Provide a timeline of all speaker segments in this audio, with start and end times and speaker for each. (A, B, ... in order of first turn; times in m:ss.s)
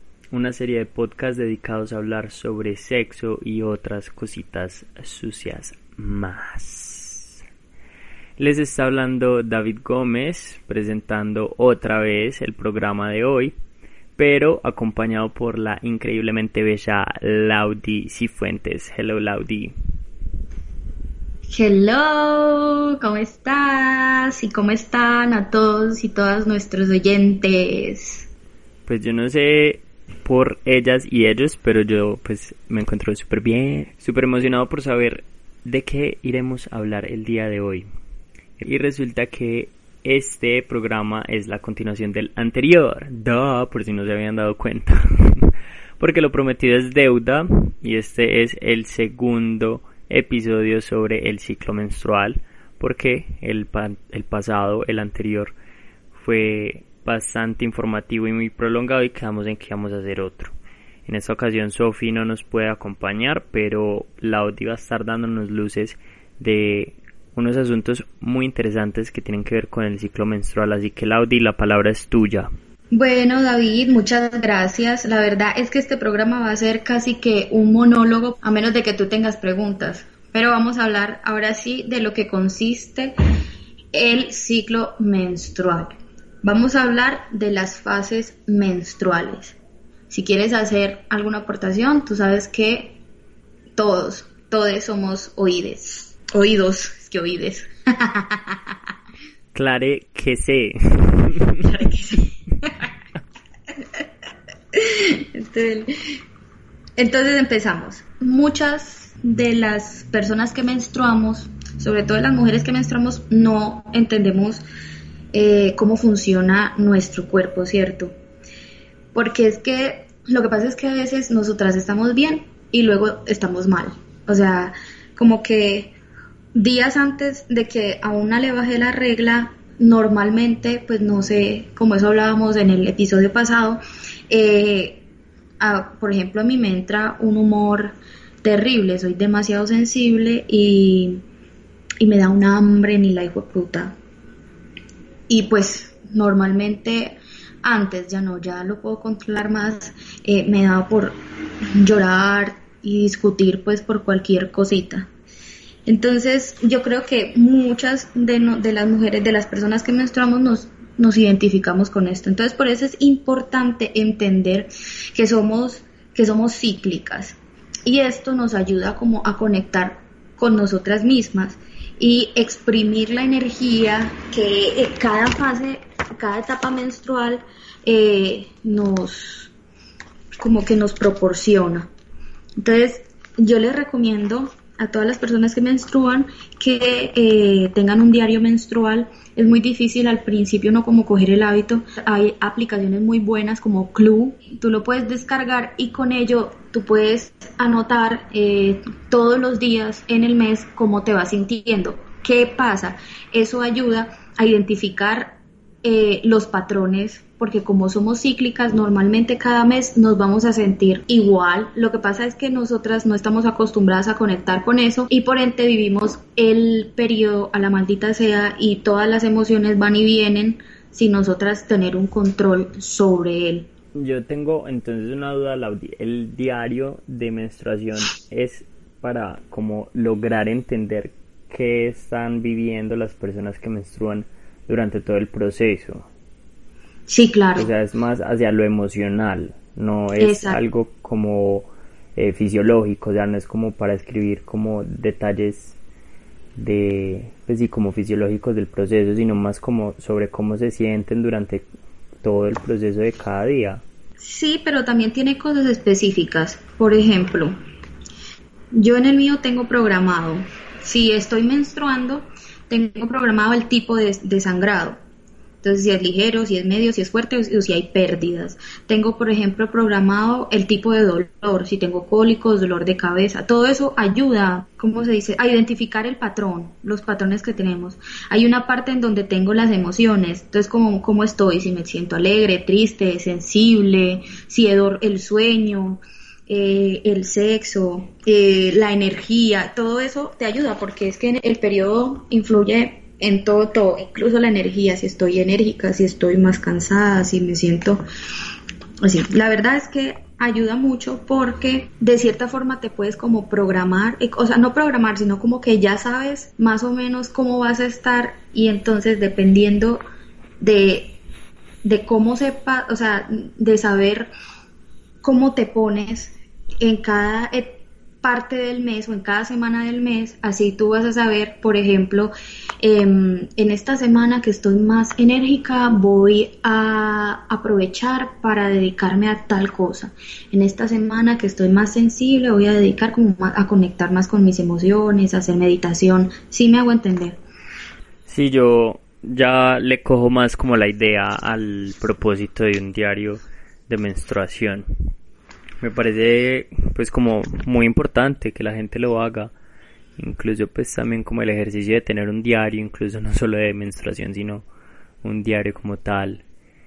0:00.3-0:07.4 A
0:08.4-0:13.5 A
0:14.2-0:19.7 A
0:21.5-0:28.3 B
0:28.9-0:37.9 A
0:38.6-0:55.6 A
0:56.1-1:00.5 A
1:01.0-1:12.5 A
1:12.9-1:23.1 B
1:23.9-1:29.6 B
1:30.1-1:33.0 B
1:33.8-1:38.6 B
1:39.5-1:42.0 A
1:42.0-1:42.7 B
1:44.7-1:45.9 B
1:47.0-1:54.6 B
1:55.3-1:58.1 B
1:59.1-2:05.9 B
2:06.5-2:15.0 B
2:15.6-2:21.2 B
2:22.0-2:23.9 B
2:25.3-2:31.2 B
2:31.8-2:35.1 B
2:35.8-2:59.5 B
3:00.4-3:01.9 B
3:02.6-3:43.7 B
3:43.9-3:56.1 A
3:57.1-3:57.7 B
3:57.6-4:05.8 A
4:00.2-4:00.6 B
4:06.6-4:11.6 A
4:12.2-4:13.8 A
4:14.2-4:17.6 B
4:18.7-4:25.0 B
4:25.6-4:58.0 B
4:59.0-5:10.0 B
5:10.6-5:11.2 B
5:11.8-5:14.3 B
5:15.2-5:37.4 B
5:38.2-5:44.8 A
5:45.8-5:49.5 A
5:50.2-5:54.6 A
5:55.2-5:56.4 A